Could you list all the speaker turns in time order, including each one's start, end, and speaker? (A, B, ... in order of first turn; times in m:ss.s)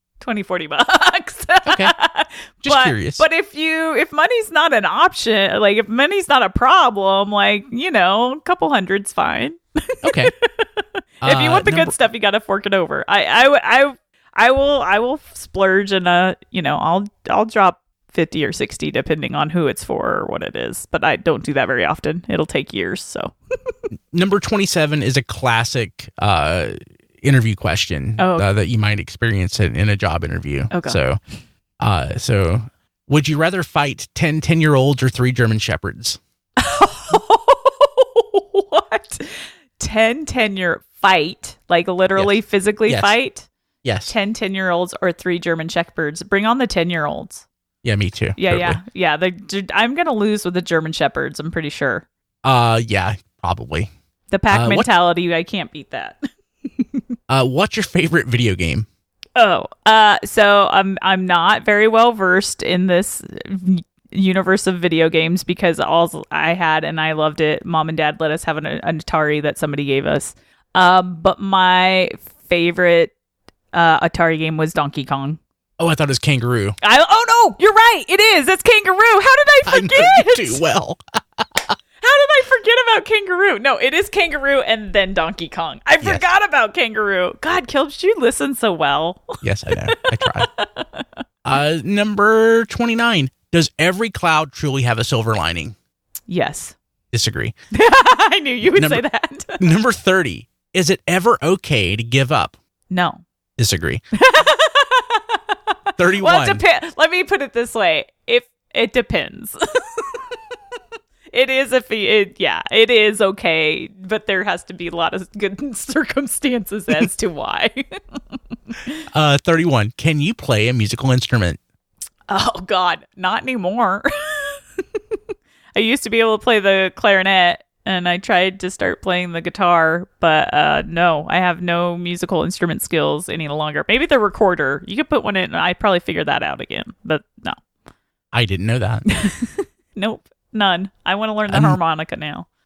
0:00.2-0:23.3 A
0:01.7-0:01.9 B
0:02.6-0:03.2 B
0:10.0-0:10.3 B
0:11.2-0:11.9 B
0:24.1-0:31.2 B
0:28.2-0:28.5 A
0:30.7-0:31.0 A
0:31.8-0:36.2 B
0:36.6-0:43.5 A
0:42.9-0:43.2 B
0:43.8-0:44.1 B
0:44.1-0:47.4 A
0:47.8-0:48.8 B
0:48.4-0:52.1 A
0:52.4-0:53.9 B
0:54.3-0:57.0 A
0:54.5-0:54.9 B
0:57.3-0:58.9 B
0:59.4-1:13.1 A
1:13.7-1:15.4 A
1:15.8-1:16.8 B
1:16.8-1:20.6 A
1:19.7-1:21.8 B
1:22.0-1:29.4 A
1:29.4-1:30.5 B
1:29.9-1:31.1 A
1:31.4-1:35.8 B
1:36.3-1:36.8 A
1:37.1-1:37.6 B
1:37.7-1:39.7 A
1:38.6-1:39.0 B
1:39.6-1:42.6 B
1:42.9-1:43.2 A
1:43.6-1:44.0 B
1:44.2-1:45.6 A
1:46.0-1:46.6 B
1:46.1-1:50.4 A
1:51.3-1:58.2 A
1:59.1-2:01.6 B
2:02.3-2:05.0 A
2:05.8-2:17.6 A
2:18.3-2:19.0 B
2:19.1-2:22.5 A
2:21.5-2:21.8 B